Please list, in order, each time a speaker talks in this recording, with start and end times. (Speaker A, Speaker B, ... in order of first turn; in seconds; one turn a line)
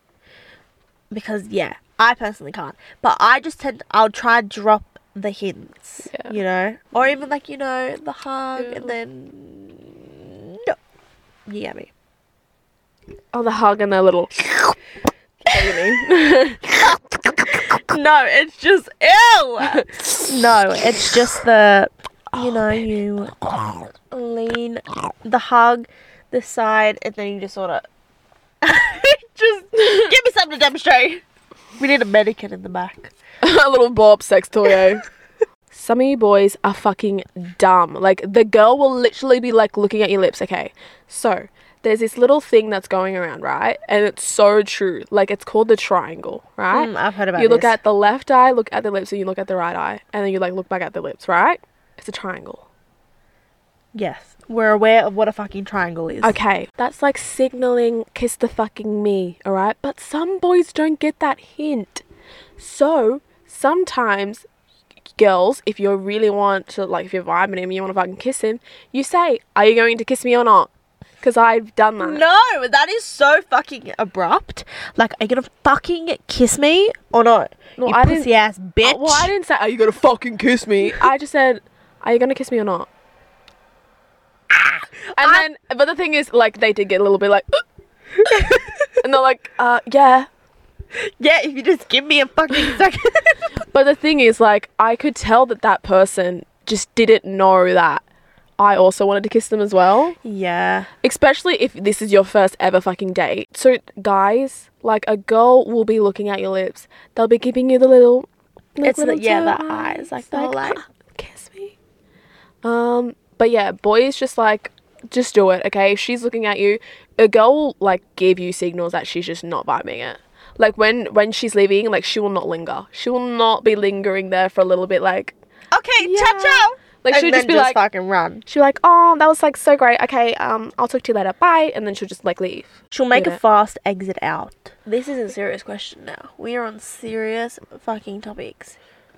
Speaker A: 1.1-10.8
Speaker B: 6.1-6.4
Speaker B: 8.6-8.9
Speaker A: 11.5-11.9
Speaker B: 13.3-14.7
Speaker B: 15.4-16.9
Speaker A: 15.5-15.8
Speaker A: 17.5-27.8
Speaker B: 19.7-20.3
Speaker B: 22.3-22.8
Speaker A: 28.6-31.2
Speaker B: 29.8-30.1
Speaker A: 31.8-33.1
Speaker B: 33.4-35.0
Speaker B: 35.7-52.6
Speaker A: 46.7-47.8
Speaker A: 53.9-56.4
Speaker B: 56.2-62.0
Speaker B: 62.6-64.4
Speaker B: 65.2-70.7
Speaker B: 71.2-72.2
Speaker A: 72.0-79.3
Speaker B: 77.8-78.3
Speaker B: 78.8-82.9
Speaker A: 84.5-85.4
Speaker B: 85.2-87.6
Speaker A: 88.2-88.9
Speaker B: 89.0-90.3
Speaker A: 90.9-93.4
Speaker B: 93.7-98.0
Speaker B: 98.6-100.2
Speaker A: 100.2-100.9
Speaker B: 101.0-111.8
Speaker A: 108.8-110.8
Speaker B: 112.6-125.3
Speaker A: 125.7-128.4
Speaker B: 126.0-127.8
Speaker B: 128.4-133.4
Speaker A: 132.9-138.8